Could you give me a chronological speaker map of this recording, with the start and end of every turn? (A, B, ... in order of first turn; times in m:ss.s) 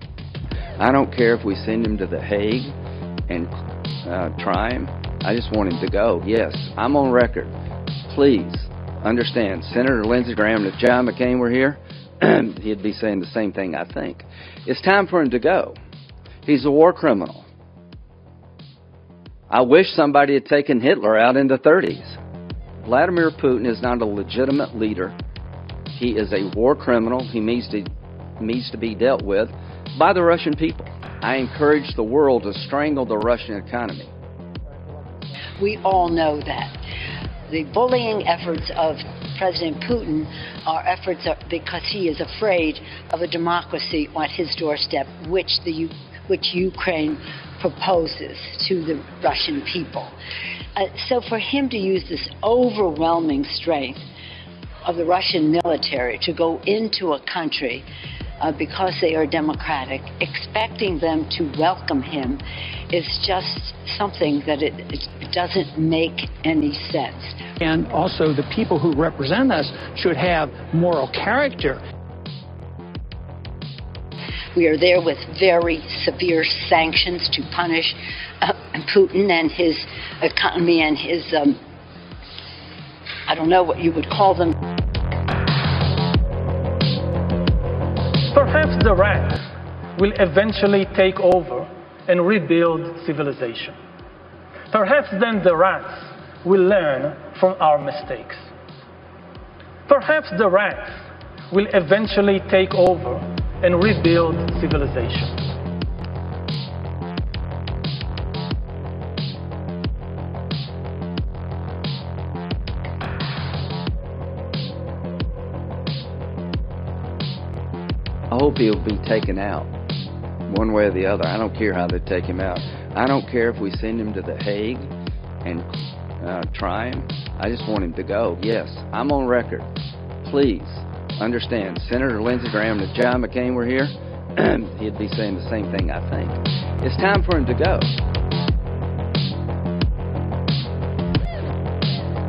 0:00.8-0:02.7 A
0:04.0-0:07.5 A
0:08.1-0:15.8 A
0:16.4-0:17.4 A
0:19.5-0:22.2 A
0:22.8-0:25.1 A
0:25.9-0:34.1 A
0:35.6-0:36.7 B
0:37.5-0:50.1 B
0:50.8-0:54.0 B
0:54.8-0:57.8 B
0:58.4-1:07.4 B
1:07.6-1:11.8 C
1:14.5-1:21.6 B
1:23.3-1:24.5 B
1:28.3-1:33.8 D
1:34.7-1:38.5 D
1:39.9-1:45.4 D
1:58.3-1:59.7 A
2:00.5-2:04.9 A
2:05.4-2:05.7 A
2:06.2-2:09.7 A
2:10.2-2:17.9 A